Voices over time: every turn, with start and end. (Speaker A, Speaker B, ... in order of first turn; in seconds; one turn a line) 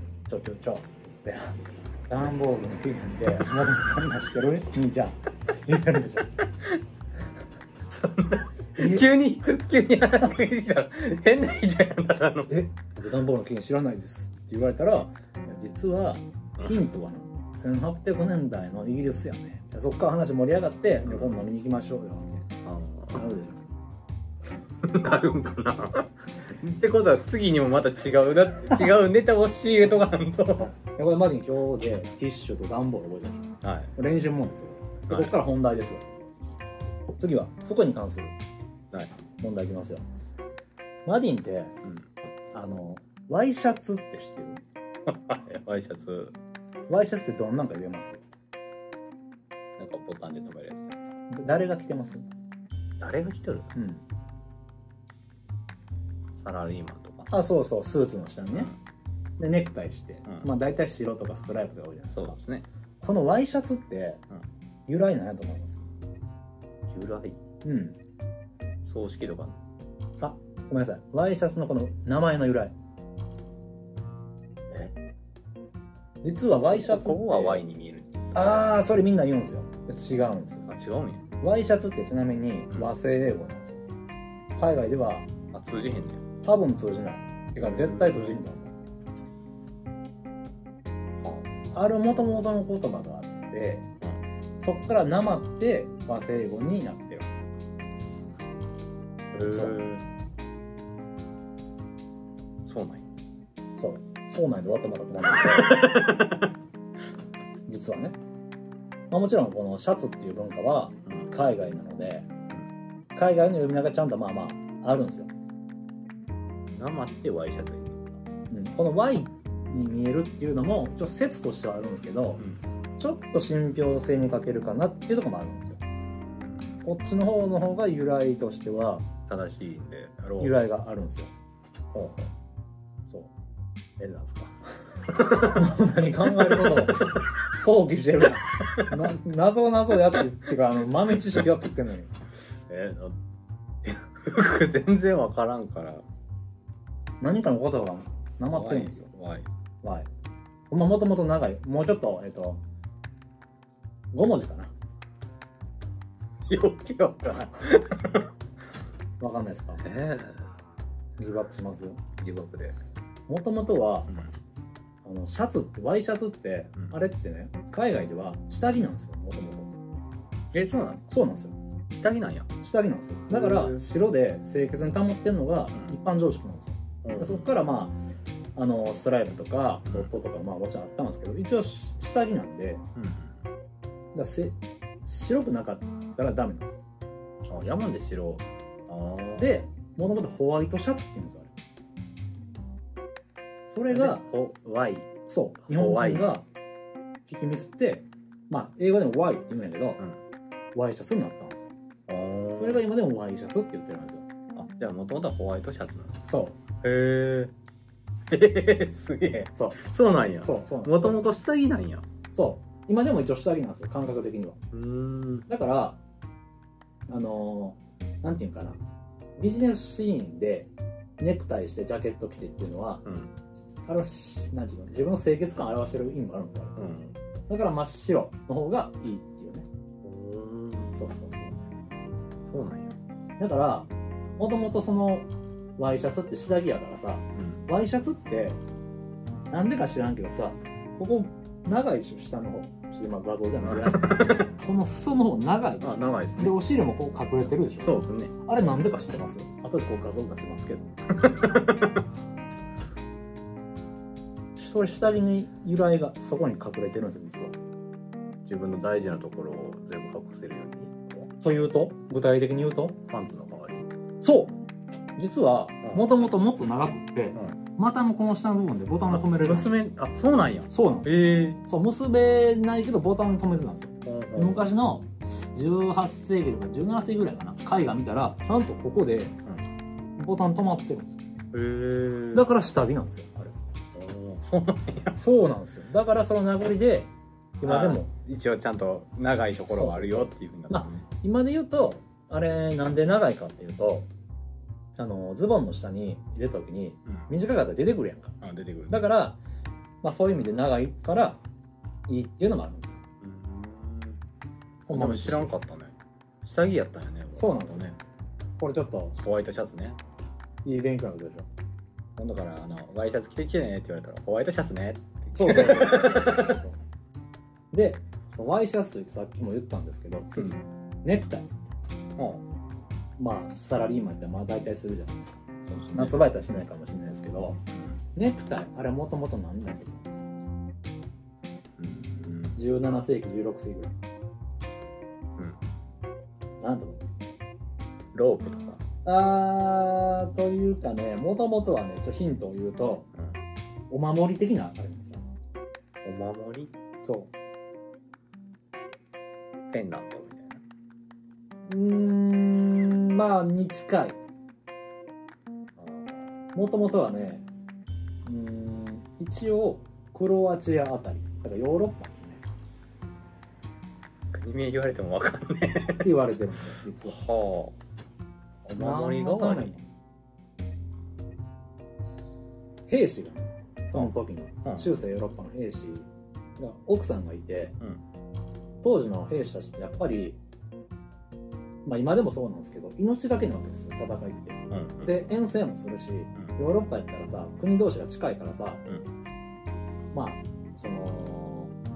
Speaker A: 0.3-6.4
Speaker B: 7.8-12.6
Speaker A: 8.8-9.1
Speaker A: 12.5-22.5
Speaker B: 21.1-21.4
Speaker B: 22.6-23.4
Speaker A: 23.1-23.6
Speaker B: 24.8-30.8
Speaker A: 30.8-36.0
Speaker B: 33.6-33.9
Speaker B: 35.1-35.4
Speaker A: 37.2-38.4
Speaker A: 39.4-40.0
Speaker A: 41.1-41.8
Speaker B: 41.8-42.1
Speaker A: 42.5-44.6
Speaker B: 45.1-46.4
Speaker A: 46.9-48.2
Speaker B: 49.8-51.1
Speaker A: 51.3-52.3
Speaker B: 53.0-53.7
Speaker A: 53.7-54.0
Speaker B: 56.4-57.3
Speaker A: 57.3-58.7
Speaker B: 58.5-58.8
Speaker A: 59.4-62.4
Speaker B: 62.1-62.7
Speaker A: 63.0-64.2
Speaker A: 64.9-65.9
Speaker B: 66.9-67.4
Speaker A: 67.6-68.0
Speaker B: 68.8-69.6
Speaker A: 70.2-72.7
Speaker A: 76.2-77.6
Speaker B: 76.7-78.6
Speaker A: 78.3-80.7
Speaker B: 80.7-81.3
Speaker A: 81.4-83.8
Speaker A: 84.6-85.3
Speaker B: 85.5-86.3
Speaker A: 86.4-88.7
Speaker B: 87.6-88.4
Speaker B: 91.2-91.5
Speaker A: 91.7-93.9
Speaker A: 94.6-97.5
Speaker B: 99.3-100.0
Speaker A: 99.4-99.8
Speaker B: 102.6-103.1
Speaker A: 103.8-106.1
Speaker B: 105.3-106.5
Speaker A: 107.7-108.2
Speaker A: 109.1-112.3
Speaker A: 113.2-115.3
Speaker B: 116.7-118.2
Speaker A: 118.5-122.4
Speaker A: 123.0-125.8
Speaker B: 126.2-126.8
Speaker A: 126.8-129.1
Speaker B: 129.3-130.6
Speaker A: 130.4-131.3
Speaker B: 131.9-132.3
Speaker B: 134.0-134.6
Speaker B: 135.1-135.6
Speaker A: 135.2-142.1
Speaker B: 136.4-137.2
Speaker B: 138.6-139.0
Speaker B: 142.7-143.2
Speaker B: 143.8-146.1
Speaker A: 147.2-149.0
Speaker B: 148.5-149.5
Speaker A: 149.8-150.1
Speaker A: 150.7-152.6
Speaker A: 154.1-154.7
Speaker B: 156.5-158.3
Speaker A: 159.2-159.8
Speaker B: 159.8-160.5
Speaker A: 161.2-162.0
Speaker B: 162.2-162.8
Speaker A: 163.3-164.1
Speaker A: 165.1-169.7
Speaker B: 170.5-171.1
Speaker A: 171.1-171.6
Speaker B: 171.9-172.5
Speaker A: 172.6-178.0
Speaker B: 173.3-173.8
Speaker B: 177.0-177.6
Speaker A: 178.6-182.8
Speaker B: 182.9-183.4
Speaker A: 184.1-186.8
Speaker B: 187.4-189.6
Speaker A: 189.4-191.5
Speaker A: 193.7-194.3
Speaker B: 193.9-196.3
Speaker A: 195.3-196.5
Speaker A: 197.3-200.0
Speaker A: 200.8-201.7
Speaker B: 202.1-202.8
Speaker A: 202.6-204.3
Speaker B: 204.5-206.2
Speaker A: 206.2-206.6
Speaker B: 206.8-207.5
Speaker B: 208.3-212.1
Speaker A: 209.6-209.8
Speaker A: 210.4-211.2
Speaker A: 212.3-214.6
Speaker B: 214.7-215.5
Speaker A: 215.5-216.0
Speaker A: 217.1-218.8
Speaker A: 219.4-223.1
Speaker B: 223.1-223.3
Speaker A: 223.7-226.9
Speaker B: 226.8-227.2
Speaker A: 227.5-229.7
Speaker B: 230.0-230.9
Speaker A: 230.9-231.6
Speaker B: 232.5-232.9
Speaker A: 233.4-238.6
Speaker B: 237.3-237.6
Speaker A: 239.5-251.0
Speaker B: 243.7-244.4
Speaker B: 245.8-246.6
Speaker B: 247.6-248.3
Speaker B: 251.1-252.0
Speaker A: 254.6-257.6
Speaker B: 258.4-261.3
Speaker A: 261.4-263.0
Speaker B: 263.1-263.9
Speaker A: 264.2-264.6
Speaker A: 265.2-269.7
Speaker B: 269.1-271.6
Speaker A: 270.7-279.4
Speaker B: 274.1-274.7
Speaker A: 280.2-281.2
Speaker B: 281.5-282.5
Speaker A: 282.3-283.5
Speaker B: 283.9-285.2
Speaker A: 285.1-288.1
Speaker B: 287.6-291.1
Speaker A: 289.7-294.1
Speaker A: 295.0-299.4
Speaker B: 298.4-299.0
Speaker A: 300.0-301.4
Speaker A: 302.1-303.0
Speaker B: 303.2-304.2
Speaker A: 304.9-305.6
Speaker B: 304.9-308.0
Speaker A: 307.4-307.9
Speaker A: 308.6-309.2
Speaker B: 309.2-310.0
Speaker A: 310.6-311.5
Speaker B: 312.2-316.6
Speaker A: 315.3-316.8
Speaker A: 317.7-321.5
Speaker B: 322.2-322.4
Speaker A: 323.2-325.4
Speaker B: 325.7-326.3
Speaker A: 325.9-327.6
Speaker A: 328.1-330.3
Speaker B: 331.8-332.6
Speaker A: 332.6-334.0
Speaker A: 336.6-337.3
Speaker B: 338.1-338.8
Speaker A: 339.1-343.1
Speaker A: 343.9-345.3
Speaker B: 346.0-346.7
Speaker A: 347.0-347.3
Speaker B: 349.7-350.6
Speaker A: 351.7-354.2
Speaker B: 355.8-356.3
Speaker A: 356.6-357.5
Speaker A: 358.2-362.4
Speaker B: 364.3-366.1
Speaker A: 366.0-367.2
Speaker B: 367.0-367.8
Speaker B: 368.6-369.8
Speaker A: 368.8-369.8
Speaker A: 372.9-377.8
Speaker B: 374.6-374.9
Speaker A: 378.8-380.4
Speaker A: 381.9-388.8
Speaker B: 384.7-385.2
Speaker A: 390.1-391.7